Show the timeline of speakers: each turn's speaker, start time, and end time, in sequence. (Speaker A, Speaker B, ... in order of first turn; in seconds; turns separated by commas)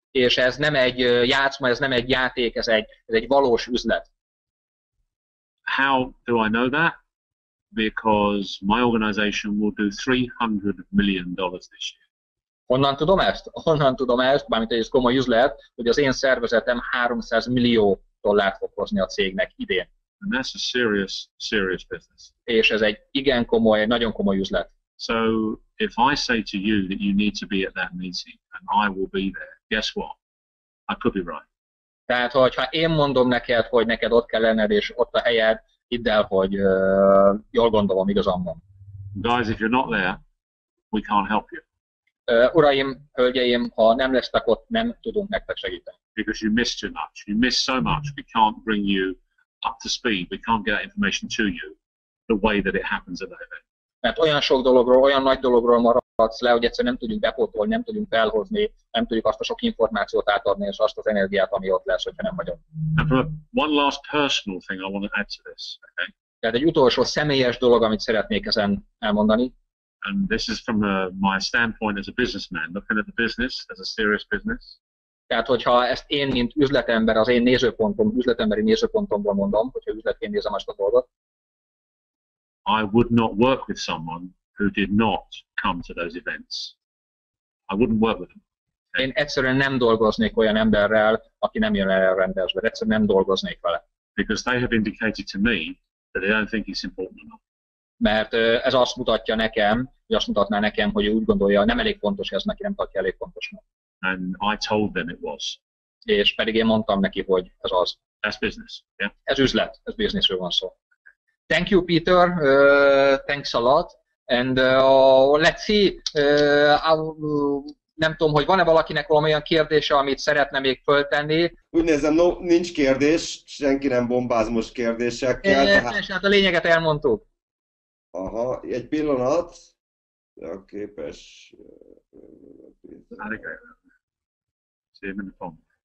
Speaker A: 0.1-4.1, Speaker B: 5.7-7.0, Speaker B: 7.7-12.0, Speaker A: 12.7-19.9, Speaker B: 20.2-22.3, Speaker A: 22.4-24.7, Speaker B: 25.0-30.2, Speaker B: 30.9-31.4, Speaker A: 32.1-38.6, Speaker B: 39.1-40.2, Speaker B: 40.9-41.6, Speaker A: 42.3-46.0, Speaker B: 46.1-51.8, Speaker B: 52.3-53.6, Speaker A: 54.0-62.6, Speaker B: 62.9-66.1, Speaker A: 66.4-69.5, Speaker B: 70.0-74.8, Speaker A: 75.3-81.0, Speaker B: 82.7-86.7, Speaker B: 87.7-88.4, Speaker A: 89.0-93.8, Speaker B: 94.2-97.4, Speaker A: 98.0-103.6, Speaker B: 104.0-105.6, Speaker A: 106.0-108.0, Speaker B: 108.2-109.1, Speaker A: 109.2-110.7, Speaker A: 111.5-121.5, Speaker C: 121.7-126.0, Speaker A: 125.4-127.2, Speaker C: 128.1-129.6, Speaker C: 130.4-133.2, Speaker B: 133.2-133.7, Speaker B: 135.0-135.6